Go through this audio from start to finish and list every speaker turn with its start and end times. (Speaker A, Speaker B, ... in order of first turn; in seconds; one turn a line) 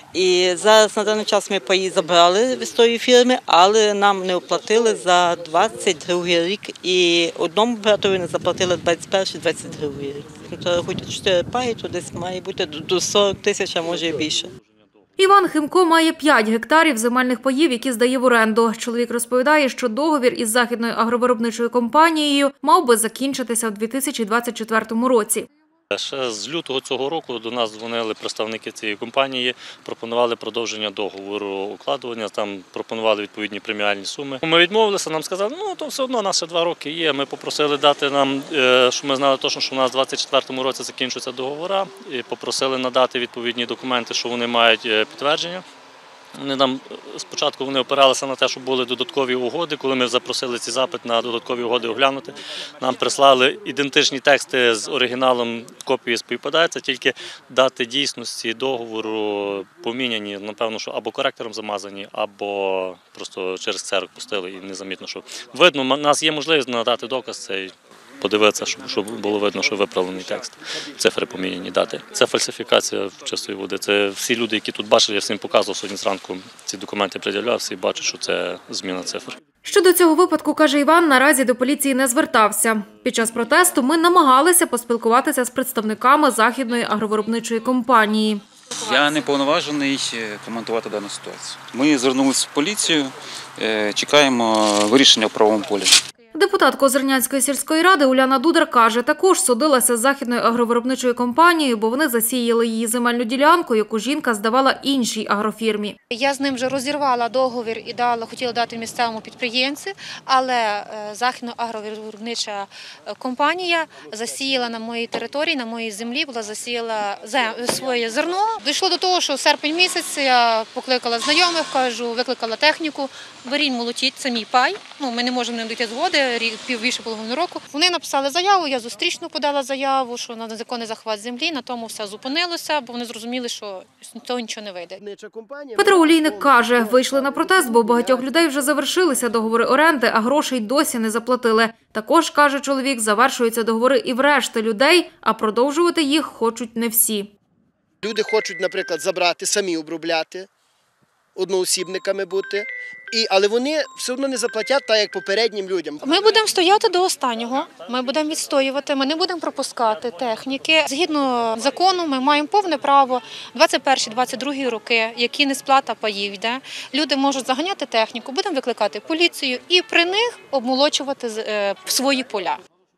Speaker A: 0.1-14.5
Speaker B: 15.2-25.5
Speaker C: 25.9-45.6
Speaker C: 46.4-79.4
Speaker B: 79.6-88.4
Speaker D: 88.8-96.0
Speaker B: 96.3-106.0
Speaker E: 106.1-135.0
Speaker F: 135.0-138.3
Speaker B: 135.8-147.3
Speaker F: 148.0-150.5
Speaker F: 151.3-156.1
Speaker E: 156.0-172.6